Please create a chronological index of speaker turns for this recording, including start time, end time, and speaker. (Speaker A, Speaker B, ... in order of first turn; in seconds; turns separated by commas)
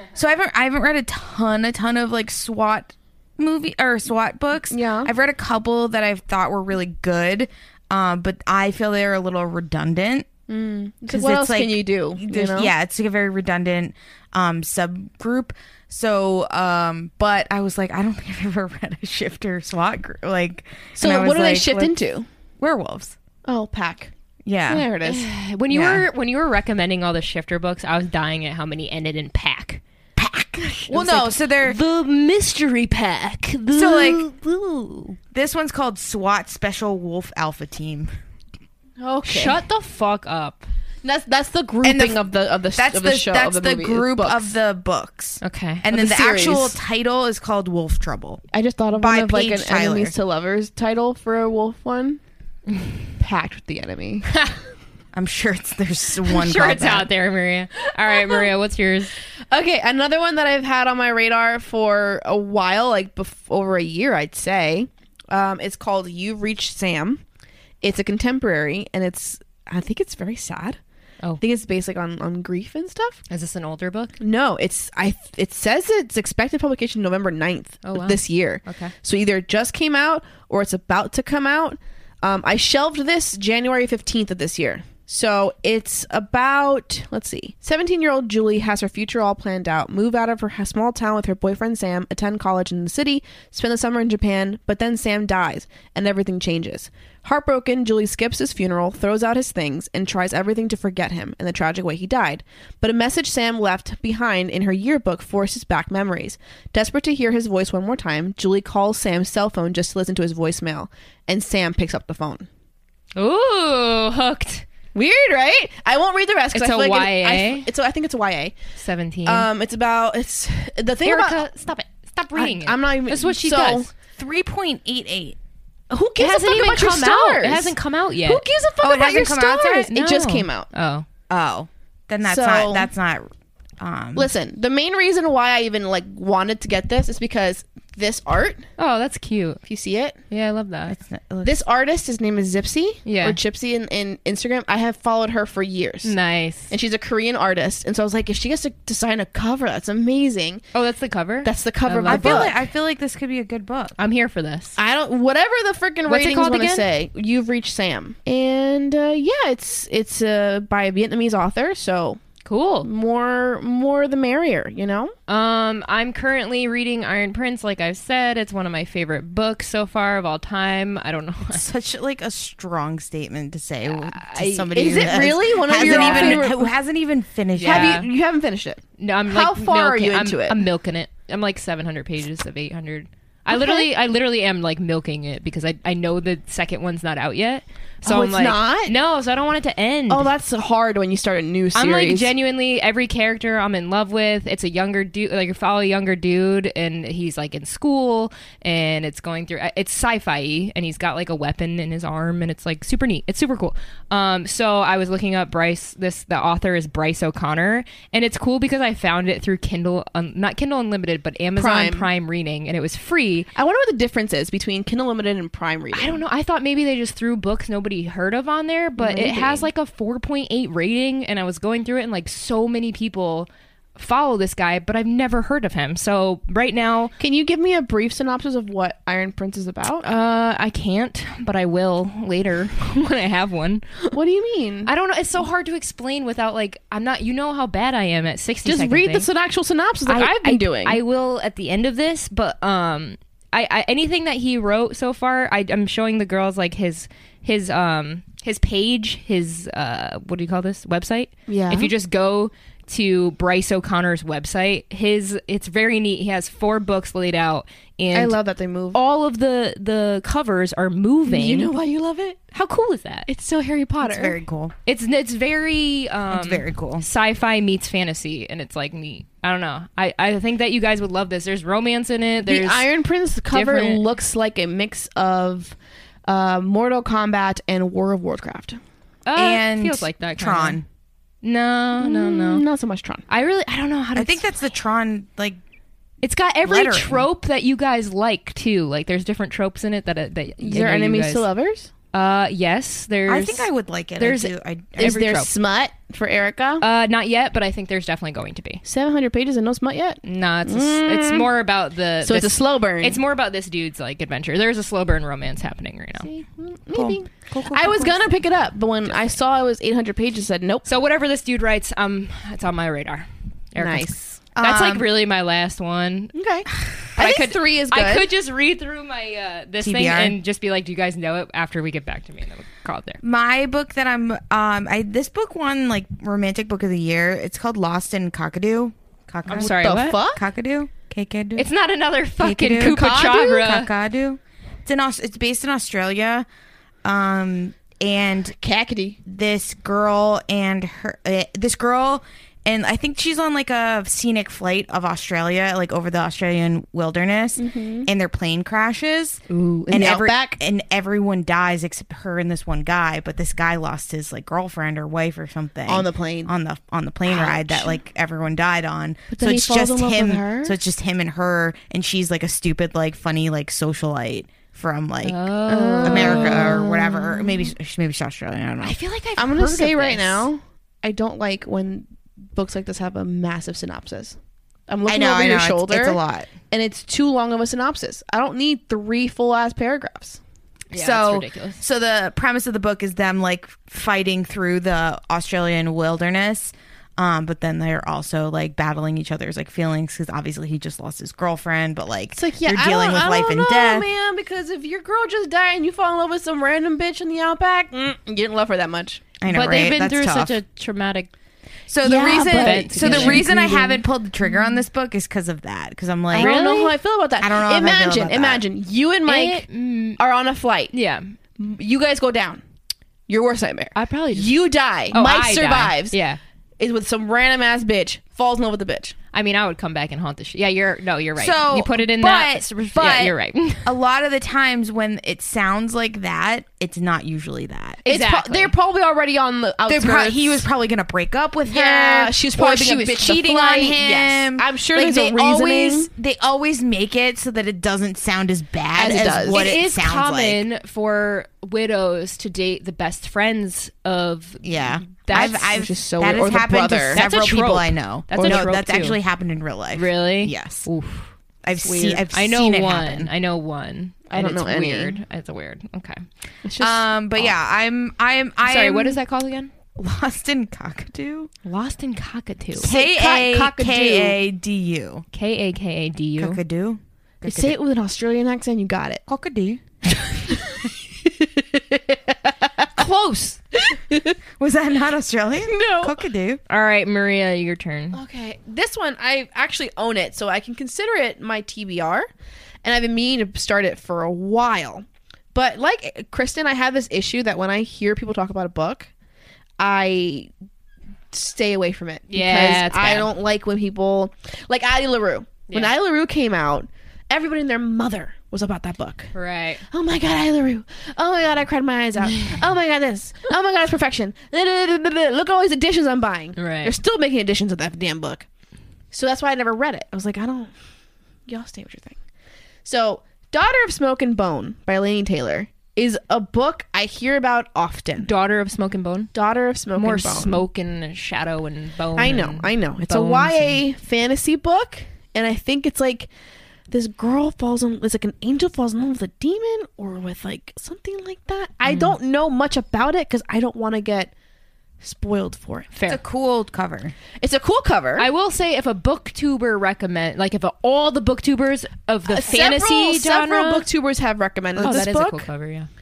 Speaker A: 0.1-10.3, Speaker B: 4.7-5.1, Speaker B: 10.5-12.7, Speaker A: 11.1-21.9, Speaker B: 21.0-22.3, Speaker A: 22.6-23.2, Speaker B: 23.4-24.1, Speaker A: 24.4-24.9, Speaker B: 24.7-25.3, Speaker C: 25.0-29.8, Speaker A: 25.7-26.1, Speaker A: 30.2-31.8, Speaker B: 30.9-31.3, Speaker C: 30.9-35.2, Speaker A: 33.7-34.2, Speaker A: 35.3-38.1, Speaker B: 39.0-39.6, Speaker C: 39.2-40.7, Speaker B: 41.0-44.6, Speaker A: 41.8-48.4, Speaker C: 45.4-45.9, Speaker B: 45.9-46.8, Speaker B: 48.5-52.2, Speaker A: 49.0-50.1, Speaker B: 53.2-54.3, Speaker A: 55.1-57.1, Speaker C: 56.3-59.1, Speaker B: 58.1-58.4, Speaker B: 59.5-67.2, Speaker B: 67.8-70.8, Speaker B: 71.4-73.2, Speaker C: 73.3-74.2, Speaker B: 74.2-112.5, Speaker C: 77.8-78.9, Speaker C: 113.2-114.7, Speaker B: 115.0-118.5, Speaker C: 116.5-117.7, Speaker C: 118.8-119.5, Speaker B: 119.2-121.4, Speaker C: 121.0-123.9, Speaker B: 122.3-123.9, Speaker A: 124.2-125.4, Speaker B: 125.9-130.7, Speaker C: 126.2-128.4, Speaker A: 128.8-129.9, Speaker C: 129.9-131.1, Speaker A: 131.3-134.3, Speaker B: 132.2-132.9, Speaker B: 134.2-138.7, Speaker C: 138.8-139.6, Speaker B: 139.7-140.2, Speaker C: 140.3-141.0, Speaker A: 140.9-141.6, Speaker B: 141.4-146.1, Speaker C: 143.1-143.4, Speaker C: 146.0-146.7, Speaker B: 146.7-150.6, Speaker C: 150.7-152.6, Speaker B: 151.4-152.6, Speaker A: 152.1-154.0, Speaker C: 154.0-154.8, Speaker B: 154.8-162.2, Speaker C: 156.1-156.9, Speaker C: 162.4-162.9, Speaker B: 162.8-165.1, Speaker C: 165.3-171.7, Speaker A: 171.5-178.0, Speaker C: 173.9-174.8, Speaker B: 174.7-176.7, Speaker C: 175.7-176.5, Speaker C: 177.6-178.1, Speaker B: 177.6-180.6, Speaker C: 179.0-190.3, Speaker B: 183.5-183.9, Speaker B: 188.0-188.9, Speaker B: 190.1-192.3, Speaker C: 191.8-213.5, Speaker B: 211.6-212.1, Speaker B: 213.6-216.2, Speaker C: 215.9-227.1, Speaker B: 219.0-219.7, Speaker B: 227.2-230.1, Speaker C: 230.0-233.8, Speaker B: 234.1-234.9, Speaker C: 234.9-239.3, Speaker B: 238.7-241.0, Speaker C: 240.1-258.4, Speaker B: 251.5-251.9, Speaker B: 258.1-259.0, Speaker C: 258.9-261.7, Speaker B: 261.3-262.4, Speaker C: 262.5-263.3, Speaker B: 263.3-264.4, Speaker A: 264.0-264.7, Speaker C: 264.9-272.9, Speaker A: 266.3-267.1, Speaker B: 272.4-278.8, Speaker C: 273.5-274.0, Speaker C: 279.3-280.8, Speaker A: 279.4-280.8, Speaker C: 281.4-282.6, Speaker B: 282.0-283.2, Speaker C: 283.3-284.5, Speaker A: 284.1-285.6, Speaker C: 286.2-291.5, Speaker A: 286.6-287.3, Speaker B: 290.6-291.9, Speaker C: 292.1-295.5, Speaker A: 293.3-295.1, Speaker B: 295.0-296.8, Speaker C: 296.8-298.8, Speaker B: 298.8-301.5, Speaker C: 300.2-306.3, Speaker B: 302.2-303.2, Speaker B: 306.2-310.9, Speaker A: 306.9-308.2, Speaker C: 310.9-316.3, Speaker B: 313.8-314.4, Speaker A: 314.6-315.1, Speaker B: 316.3-318.3, Speaker C: 317.2-323.2, Speaker A: 319.8-320.4, Speaker A: 323.2-331.7, Speaker C: 329.5-330.2, Speaker B: 329.5-330.4, Speaker C: 331.6-333.9, Speaker A: 332.4-336.4, Speaker B: 332.8-333.3, Speaker A: 337.1-338.6, Speaker B: 338.6-339.2, Speaker A: 339.2-365.5, Speaker B: 347.6-348.1, Speaker B: 349.5-350.6, Speaker B: 355.9-356.5, Speaker B: 357.2-358.0, Speaker B: 359.3-360.8, Speaker C: 365.2-366.8, Speaker B: 365.7-367.6, Speaker A: 366.0-369.0, Speaker C: 368.8-370.5, Speaker B: 369.4-374.4, Speaker B: 374.9-380.4, Speaker A: 375.1-376.5, Speaker C: 380.9-381.8, Speaker A: 380.9-394.1, Speaker B: 392.3-399.3, Speaker A: 399.4-400.6, Speaker C: 399.5-401.3, Speaker A: 401.9-406.5, Speaker B: 402.0-404.0, Speaker C: 402.5-403.5, Speaker C: 406.3-407.0, Speaker B: 406.3-410.9, Speaker A: 407.4-408.6, Speaker C: 409.3-410.2, Speaker C: 410.9-411.3, Speaker B: 411.6-412.6, Speaker B: 413.3-416.2, Speaker C: 413.9-414.5, Speaker C: 415.1-416.4, Speaker B: 416.8-419.1, Speaker C: 419.3-423.9, Speaker A: 421.4-428.0, Speaker C: 428.1-428.7, Speaker B: 428.1-430.7, Speaker A: 429.9-440.6, Speaker B: 431.7-436.1, Speaker B: 439.0-439.7, Speaker C: 439.5-445.6, Speaker A: 444.6-450.9, Speaker B: 445.3-447.2, Speaker C: 447.1-449.2, Speaker B: 448.3-448.6, Speaker C: 449.9-451.3, Speaker A: 451.6-453.3, Speaker B: 451.8-452.2, Speaker C: 452.3-456.2, Speaker B: 454.3-455.2, Speaker B: 456.6-457.5, Speaker A: 456.8-459.2, Speaker C: 458.6-459.7, Speaker A: 459.9-461.5, Speaker C: 461.6-462.9, Speaker B: 462.8-464.4, Speaker A: 462.8-465.2, Speaker C: 465.3-466.6, Speaker A: 466.4-467.8, Speaker B: 467.4-469.2, Speaker A: 469.3-469.8, Speaker B: 470.2-472.9, Speaker C: 473.0-473.6, Speaker B: 473.8-474.4, Speaker A: 474.6-476.6, Speaker B: 475.6-476.2, Speaker C: 476.7-478.2, Speaker B: 478.1-482.3, Speaker B: 482.8-489.1, Speaker B: 489.8-490.5, Speaker B: 491.3-499.3, Speaker C: 492.3-493.3, Speaker C: 499.3-499.9, Speaker B: 499.9-508.5, Speaker C: 502.3-502.6, Speaker C: 506.6-506.9, Speaker B: 509.1-510.7, Speaker B: 511.5-512.2, Speaker B: 512.9-518.3, Speaker C: 518.2-519.3, Speaker B: 519.3-520.6, Speaker C: 520.0-523.8, Speaker B: 522.2-526.3, Speaker B: 526.9-534.3, Speaker C: 531.9-532.2, Speaker B: 535.0-535.9, Speaker C: 535.9-536.2, Speaker A: 536.1-537.1, Speaker B: 537.4-538.3, Speaker C: 538.2-543.9, Speaker B: 542.3-545.5, Speaker C: 544.8-545.9